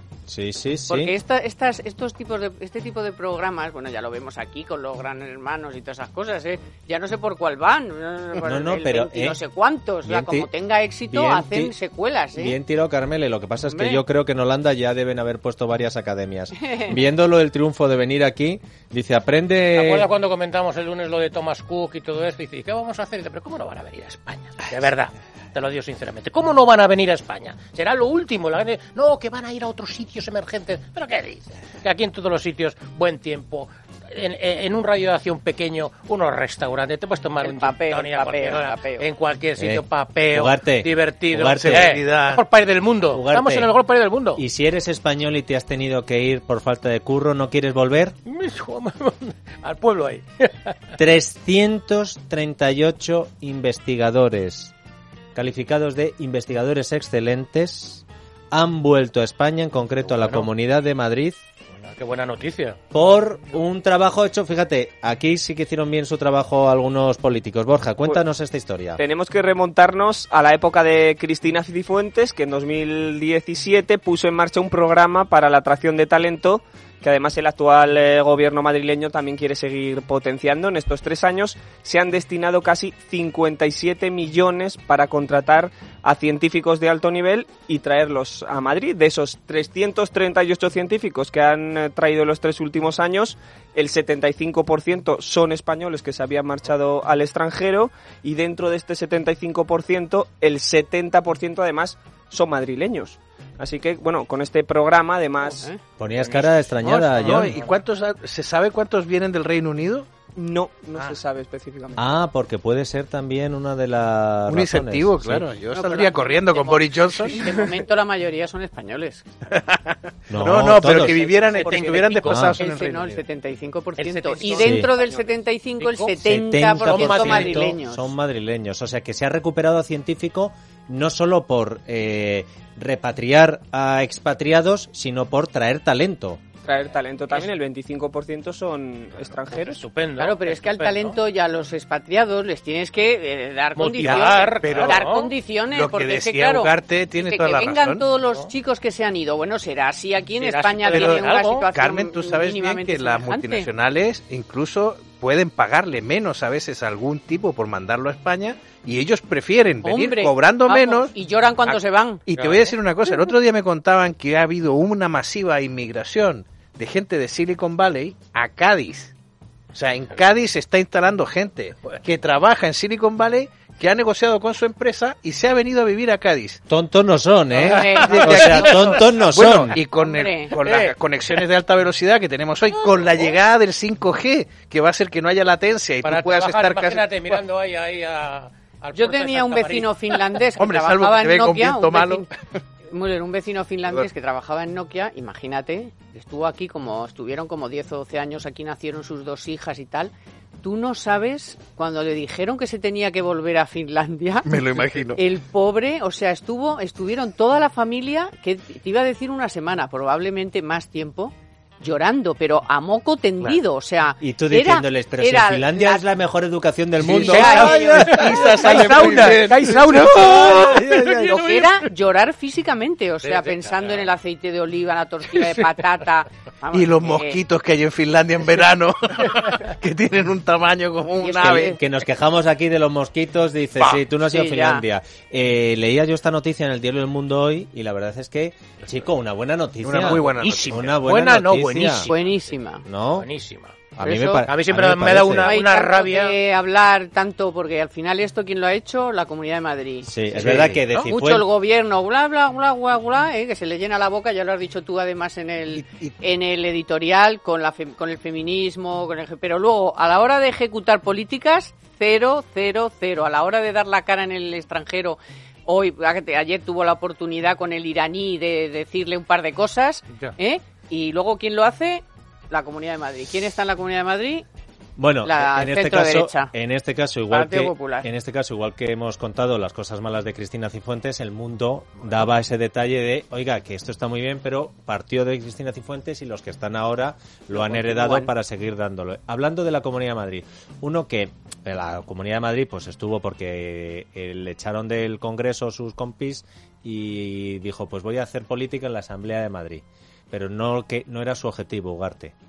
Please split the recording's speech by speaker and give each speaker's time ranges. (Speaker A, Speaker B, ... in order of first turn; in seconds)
Speaker A: 0.3-1.1, 8.4-9.4, 10.0-10.5, 11.1-11.7, 12.3-20.1, 39.6-42.0, 43.1-43.7, 44.3-48.1, 51.0-54.7, 55.3-61.4, 62.9-69.0, 106.0-107.6, 112.0-115.5, 120.3-121.2, 122.2-122.6, 124.5-124.9, 126.2-136.4, 176.7-179.8, 214.2-219.3, 231.4-242.1, 242.8-243.3, 243.9-245.5, 250.0-251.5, 275.0-302.3
Speaker B: 0.9-12.6, 13.7-14.0, 16.6-16.9, 37.4-39.0, 115.7-119.3, 120.9-128.1, 140.2-153.7, 159.8-162.2, 177.6-178.9, 179.8-180.5, 188.9-192.3, 192.9-200.1, 200.6-216.1, 217.1-227.4, 231.2-231.8, 234.2-234.8, 242.1-242.8, 244.0-244.5, 245.4-274.4, 275.2-276.5, 277.3-278.1, 287.5-288.3
Speaker C: 19.7-44.4, 48.2-50.7, 60.0-60.5, 61.8-62.8, 106.2-107.7, 121.5-122.5, 124.0-125.3, 125.8-126.1, 126.8-127.7, 139.5-141.2, 143.8-145.3, 150.4-151.7, 161.6-162.8, 177.6-179.1, 180.6-181.4, 186.0-190.2, 217.3-221.8, 223.2-224.1, 225.3-225.8, 240.0-242.5, 243.2-243.7, 244.4-246.3
Speaker D: 41.5-42.4, 106.8-110.1, 114.5-117.4, 119.5-123.2, 144.0-145.1, 145.7-148.0, 150.9-161.1, 162.3-169.1, 169.7-176.6, 177.6-187.3, 190.6-192.3, 204.4-205.2, 217.0-221.0, 226.7-231.7, 239.8-240.8, 250.4-250.8, 255.7-256.1
Speaker E: 69.0-105.7, 110.3-112.0, 136.6-139.8